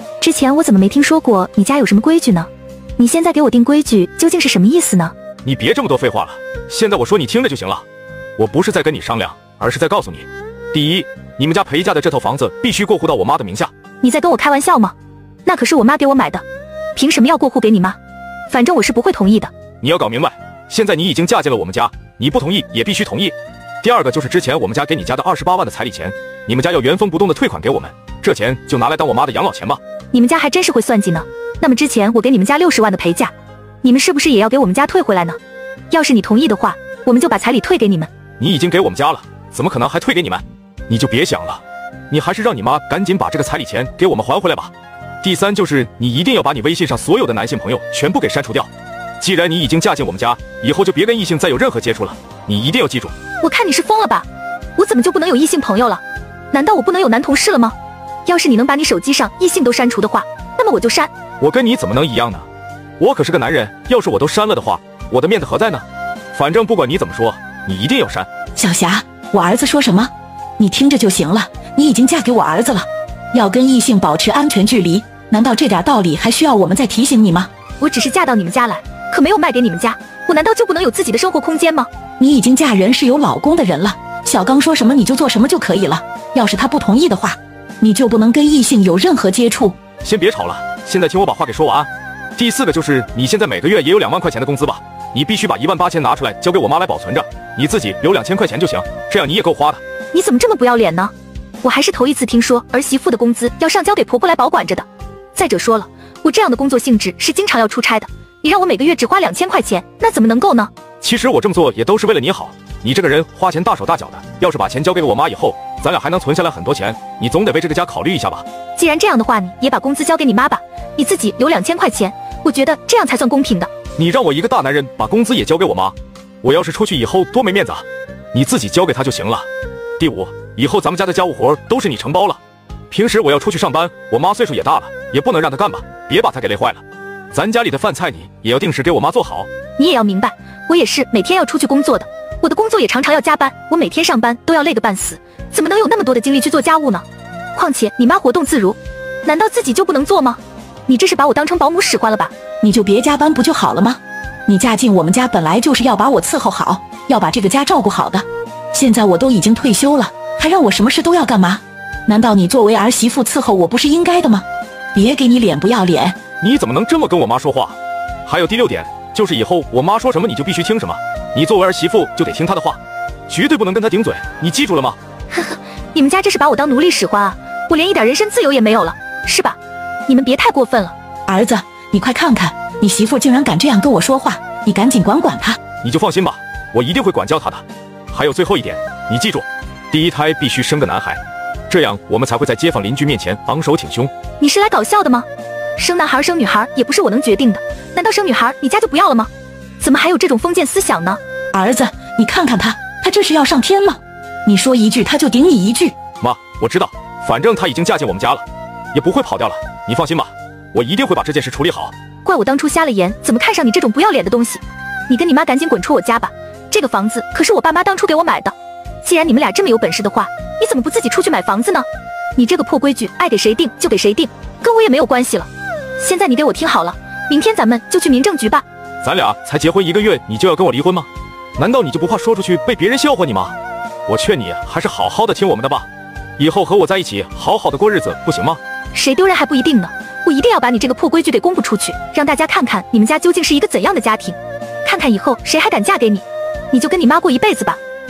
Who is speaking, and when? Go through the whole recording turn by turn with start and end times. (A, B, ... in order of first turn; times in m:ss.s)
0:00.2-0:05.1 A
0:05.4-0:07.8 B
0:08.4-0:13.7 B
0:14.0-0:14.9 A
0:15.4-0:16.4 A
0:17.0-0:18.0 A
0:18.5-0:19.5 A
0:19.8-0:29.8 B
0:30.1-0:33.3 A
0:33.8-0:35.4 A
0:35.9-0:38.1 A
0:38.4-0:53.1 B
0:53.4-0:54.2 A
0:54.8-0:57.7 A
0:58.2-1:01.1 A
1:01.4-1:02.4 B
1:03.0-1:08.3 B
1:08.6-1:17.5 C
1:17.8-1:21.9 A
1:22.2-1:29.8 C
1:30.0-1:39.8 B
1:40.1-1:50.7 A
1:51.0-1:58.4 B
1:58.8-2:03.7 A
2:04.0-2:09.5 B
2:10.0-2:12.4 B
2:12.9-2:19.5 B
2:19.8-2:32.3 A
2:32.6-2:46.2 C
2:46.4-2:55.0 B
2:55.3-3:00.9 A
3:01.3-3:05.6 C
3:05.8-3:14.1 B
3:14.4-3:21.2 A
3:21.5-3:25.9 C
3:26.2-3:31.9 B
3:32.2-3:48.6 A
3:49.0-3:53.6 B
3:54.1-3:58.6 B
3:58.9-4:07.8 A